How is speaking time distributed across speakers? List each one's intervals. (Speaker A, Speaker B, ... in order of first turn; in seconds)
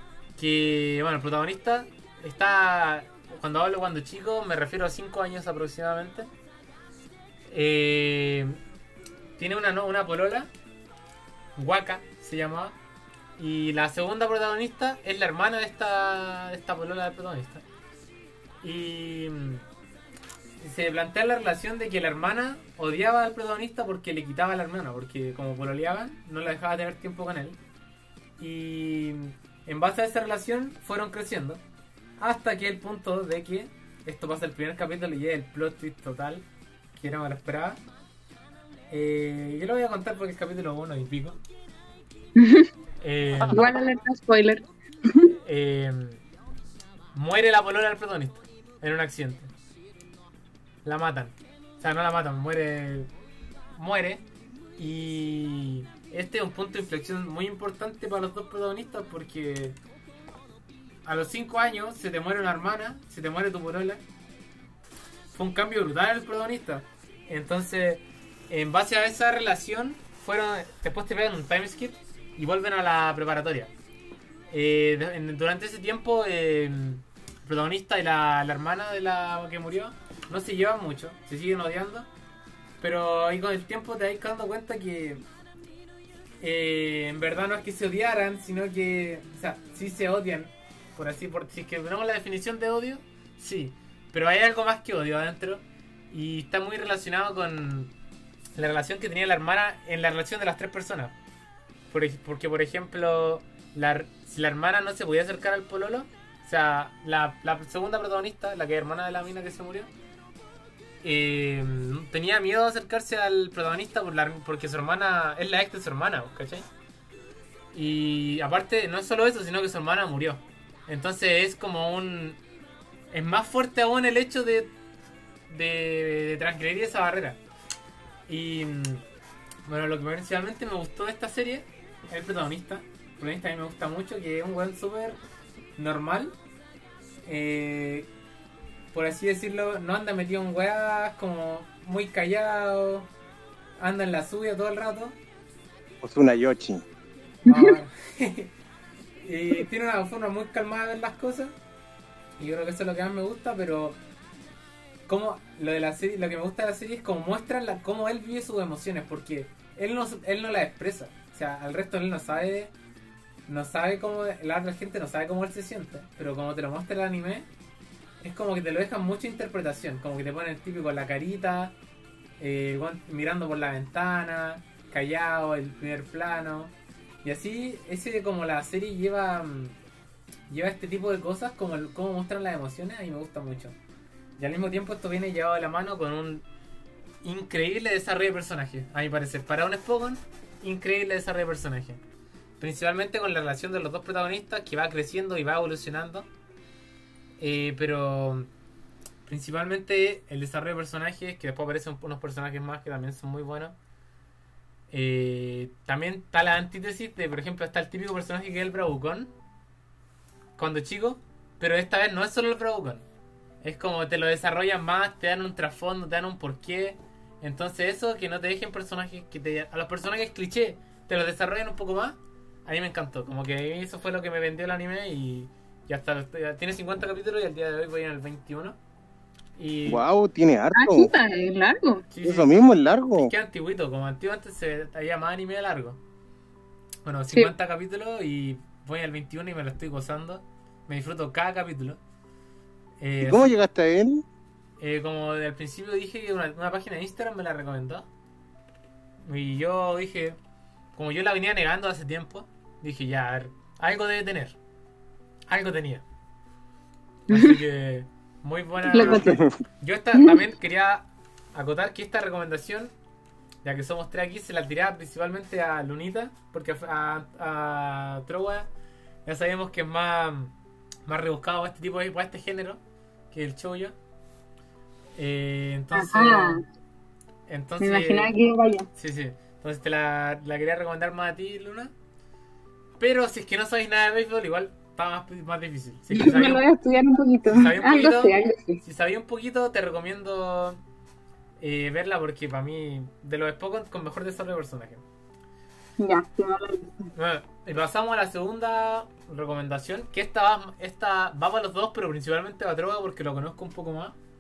Speaker A: 0.4-6.3, 7.5-8.6, 9.4-10.5, 11.6-12.8, 13.4-17.6, 18.6-19.6, 20.6-27.6, 28.4-31.6, 32.2-36.5, 37.0-37.8, 38.9-41.4, 43.0-43.7, 45.5-46.2, 47.1-49.5, 50.8-53.1, 53.8-54.2, 54.8-59.8, 61.0-64.0, 65.3-73.7, 74.5-82.1, 82.8-85.2, 86.4-97.9, 98.6-101.2, 101.9-109.9, 111.0-116.7, 117.7-122.4, 123.1-124.7, 125.5-127.4, 128.3-129.1, 129.7-135.2, 135.8-136.3, 137.2-138.1, 138.9-143.1, 143.8-145.2, 147.4-148.5, 149.2-151.5, 152.4-154.0, 155.1-162.7, 163.5-167.5, 168.2-171.8, 172.4-176.7, 177.2-179.8, 180.5-183.8, 184.4-186.4, 187.2-192.0, 192.6-196.3, 197.4-198.5, 199.3-203.8, 204.9-209.3, 210.6-213.1, 213.6-228.8, 229.6-230.0, 232.1-232.5, 233.2-236.0, 237.1-242.0, 243.0-243.5, 244.8-248.1, 249.3-250.4, 250.9-254.6, 255.5-256.1, 257.3-262.9, 263.6-268.7, 269.3-270.5, 271.1-273.9, 275.2-276.6, 277.5-278.3, 278.9-281.9, 283.0-286.6, 287.5-290.8, 291.6-295.0, 297.1-304.2
Speaker B: 42.4-42.7, 43.5-45.3, 147.5-147.8, 230.8-232.1, 257.3-257.6, 258.9-259.4, 275.9-276.6, 277.8-278.9, 286.1-288.8, 296.0-297.1
Speaker C: 146.0-146.8, 229.9-231.1, 232.2-233.3, 243.2-244.2, 258.9-259.6